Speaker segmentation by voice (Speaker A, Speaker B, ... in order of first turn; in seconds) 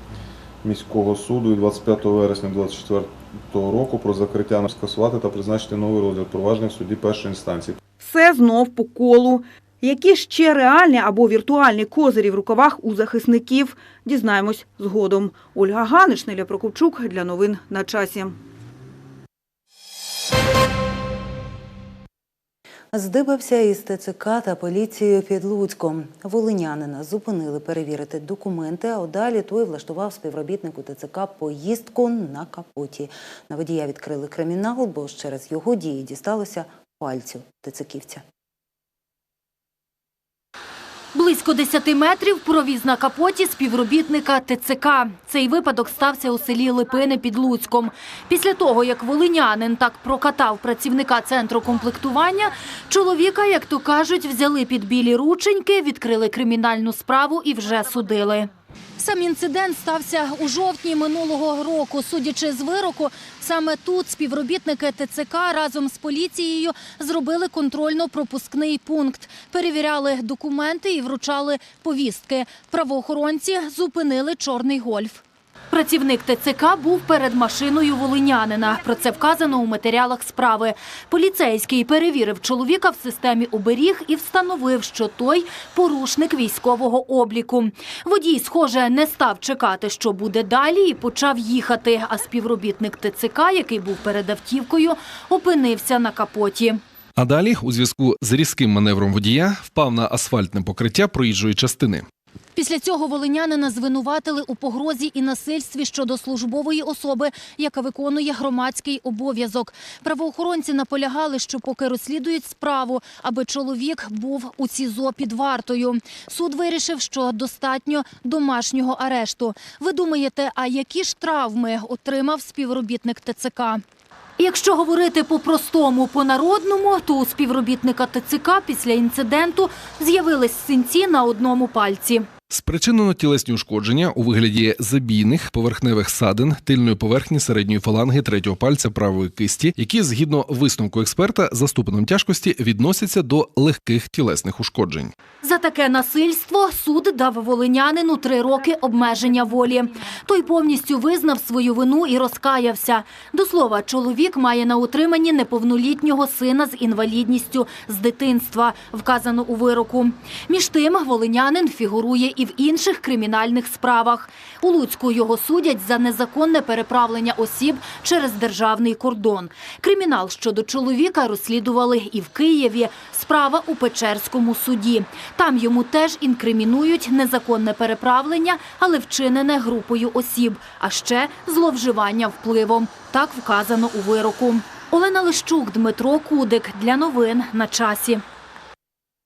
Speaker A: 0.6-7.8
Speaker B: 8.0-18.4
Speaker C: 22.9-38.2
Speaker D: 41.1-96.8, 102.5-123.8, 124.4-132.3, 145.4-188.2
Speaker E: 97.2-102.0, 132.5-145.1